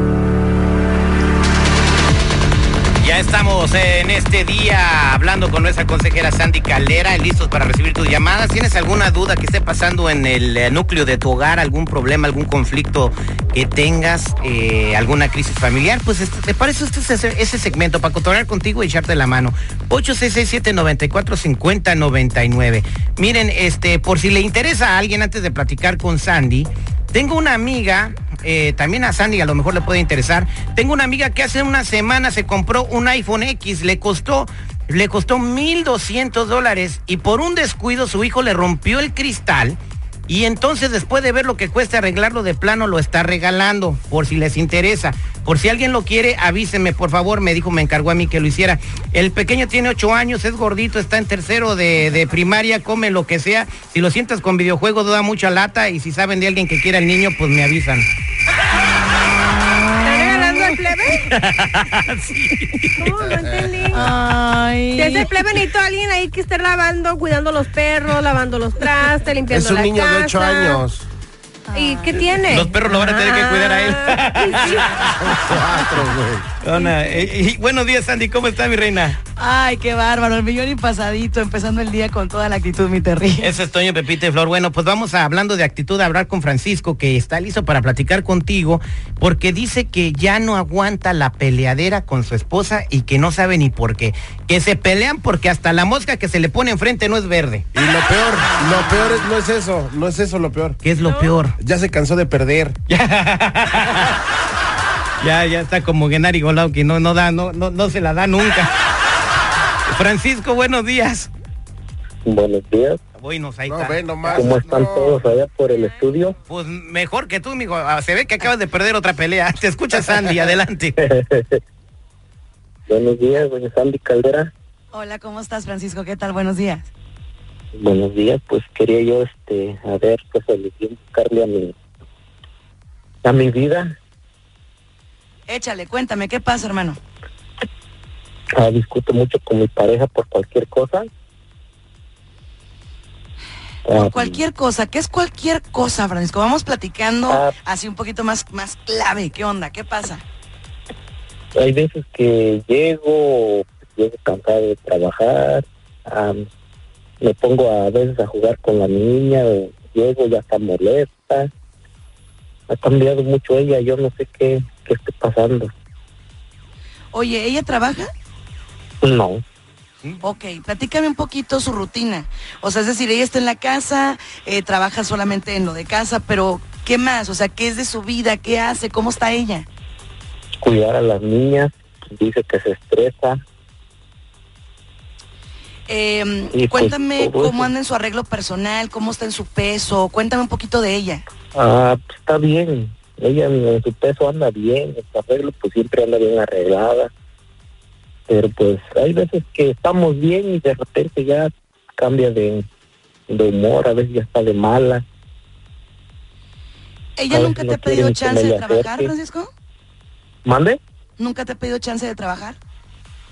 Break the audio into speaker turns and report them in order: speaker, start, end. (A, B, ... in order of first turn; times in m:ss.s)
0:03.0-0:58.1 A
0:59.7-1:00.6 B
1:00.0-1:01.3 C
1:00.7-1:03.2 A
1:03.0-1:04.0 C
1:03.2-1:04.0 D
1:04.0-1:05.3 B
1:05.0-1:10.8 C
1:09.5-1:11.1 D
1:11.7-1:12.4 B
1:11.8-1:15.1 C
1:12.5-1:16.1 A
1:15.2-1:16.5 D
1:16.6-1:19.2 A
1:16.7-1:17.3 C
1:19.4-1:23.5 B
1:23.4-1:37.7 A
1:37.8-1:40.8 D
1:40.8-1:41.6 A
1:41.0-1:41.4 C
1:41.6-1:42.8 D
1:42.9-1:44.2 A
1:45.2-1:48.7 A
1:49.9-1:51.3 A
1:52.2-1:53.0 E
1:53.2-1:54.6 A
1:53.7-1:55.2 D
1:54.3-1:56.4 E
1:56.5-2:01.0 A
2:01.0-2:01.6 E
2:02.9-2:04.5 E
2:04.9-2:06.9 B
2:07.8-2:11.8 E
2:13.2-2:14.0 E
2:15.5-2:17.0 B
2:18.6-2:21.1 E
2:23.8-2:24.4 E
2:23.9-2:30.2 B
2:31.6-2:36.5 E
2:37.2-2:41.5 E
2:42.7-2:45.7 E
2:47.1-2:48.1 B
2:49.0-2:49.4 E
2:50.2-2:59.7 B
3:00.6-3:03.4 E
3:05.9-3:11.2 B
3:06.5-3:07.7 E
3:11.5-3:17.1 E
3:18.3-3:22.7 E
3:23.3-3:25.0 E
3:27.2-3:29.5 B
3:27.3-3:29.1 E
3:30.5-3:30.8 E
3:31.2-3:32.6 B